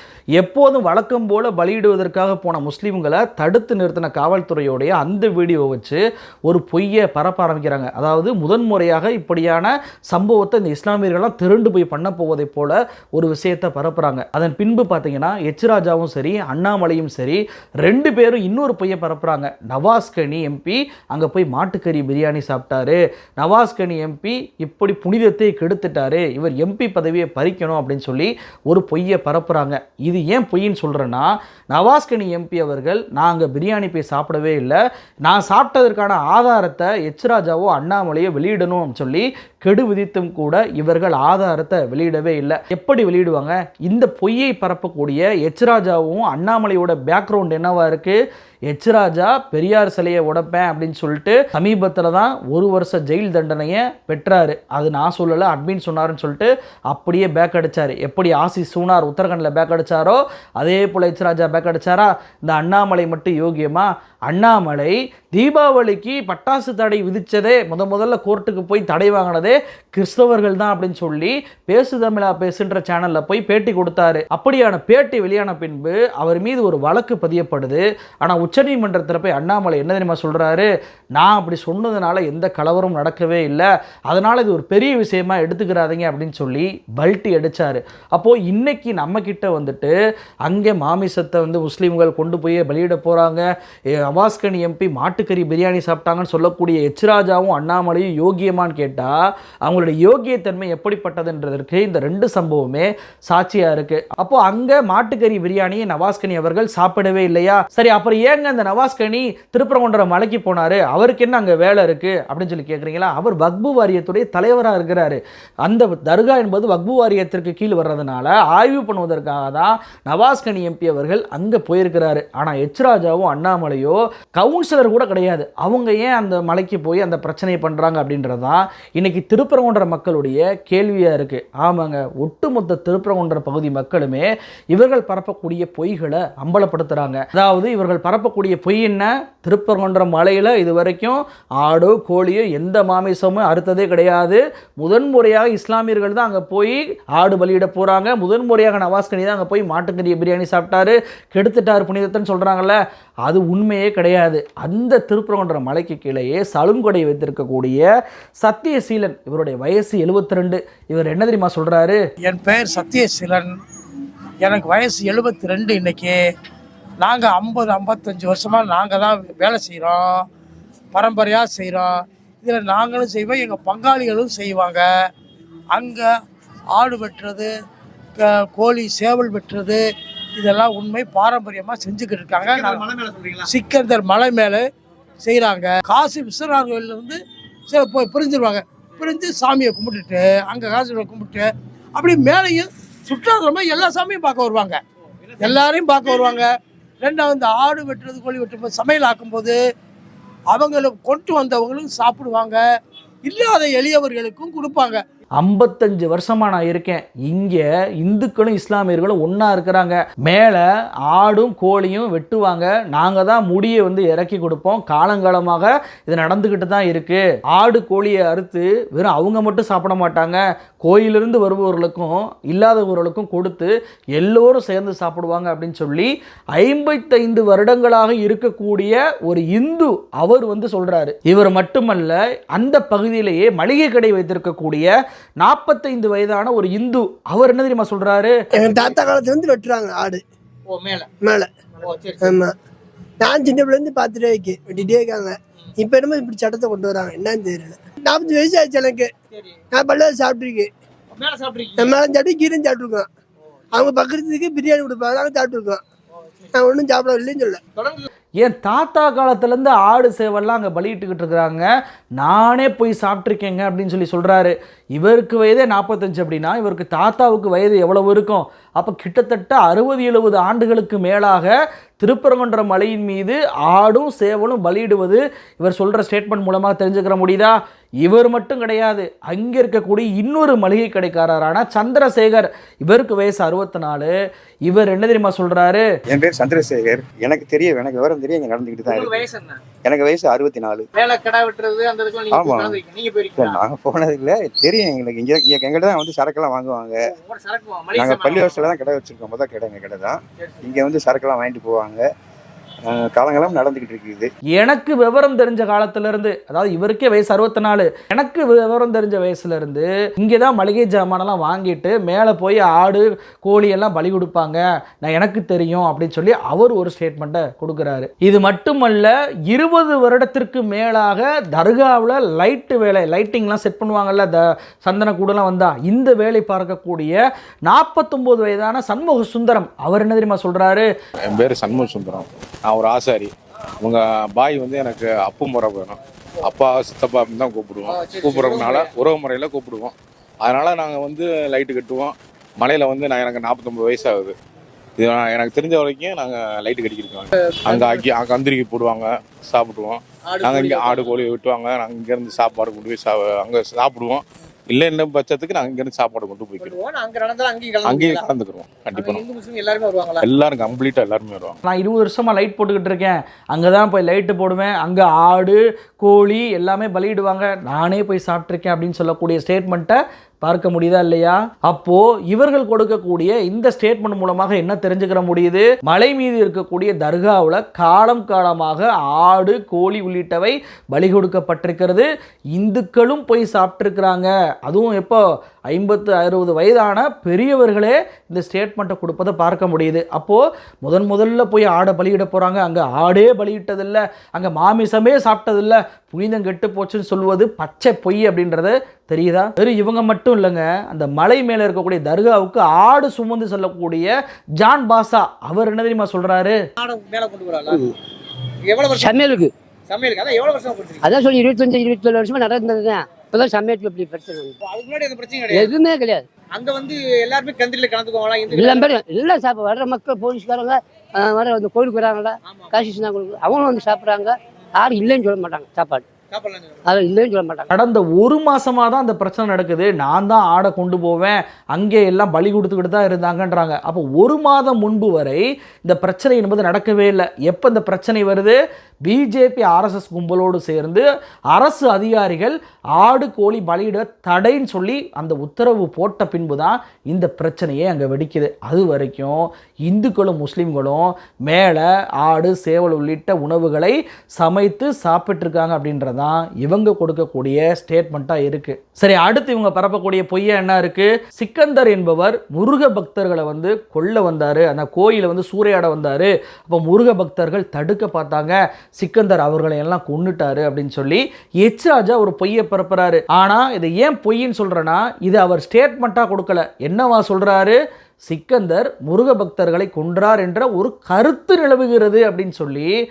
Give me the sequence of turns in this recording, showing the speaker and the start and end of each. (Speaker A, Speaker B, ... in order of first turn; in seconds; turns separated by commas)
Speaker A: 0.4-48.2, Speaker A: 48.7-93.5, Speaker A: 94.0-157.8, Speaker A: 158.4-162.0, Speaker B: 162.2-163.5, Speaker B: 164.4-166.2, Speaker B: 167.0-170.1, Speaker B: 170.9-171.9, Speaker B: 172.4-174.8, Speaker B: 175.7-176.1, Speaker B: 176.8-177.5, Speaker B: 178.2-179.8, Speaker B: 180.4-182.9, Speaker C: 182.7-183.4, Speaker B: 183.4-184.6, Speaker B: 185.2-187.2, Speaker B: 187.7-194.8, Speaker B: 195.4-196.5, Speaker B: 197.0-199.6, Speaker B: 200.5-202.6, Speaker B: 203.2-205.0, Speaker A: 205.4-234.9, Speaker A: 235.4-238.3, Speaker D: 238.6-240.2, Speaker C: 238.7-239.0, Speaker C: 240.7-241.1, Speaker D: 241.2-241.5, Speaker C: 241.8-242.3, Speaker D: 242.2-242.6, Speaker D: 243.2-249.1, Speaker D: 249.7-250.7, Speaker C: 251.1-251.9, Speaker D: 251.8-253.1, Speaker D: 253.7-255.8, Speaker D: 256.5-257.6, Speaker C: 257.8-258.1, Speaker A: 258.4-261.6, Speaker A: 262.2-284.1, Speaker A: 284.6-285.9, Speaker E: 286.1-289.2, Speaker C: 288.9-289.6, Speaker E: 289.8-290.9, Speaker C: 290.9-293.6, Speaker E: 292.3-292.8, Speaker E: 293.3-297.1, Speaker C: 297.2-298.7, Speaker E: 297.9-302.0, Speaker E: 302.9-304.3, Speaker A: 304.6-330.9, Speaker F: 331.3-333.3, Speaker F: 333.8-344.3, Speaker C: 338.0-338.8, Speaker F: 345.0-356.8, Speaker C: 347.7-348.1, Speaker C: 350.3-351.2, Speaker C: 356.6-358.2, Speaker F: 357.8-359.2, Speaker C: 358.9-360.3, Speaker F: 360.2-361.6, Speaker A: 361.6-406.6, Speaker C: 406.8-407.8, Speaker C: 408.7-409.1, Speaker G: 408.9-409.5, Speaker C: 409.9-411.0, Speaker G: 411.0-414.6, Speaker C: 414.6-415.6, Speaker G: 415.5-416.3, Speaker C: 416.5-418.9, Speaker G: 418.5-426.1, Speaker C: 426.3-426.8, Speaker G: 426.8-427.7, Speaker A: 427.7-482.9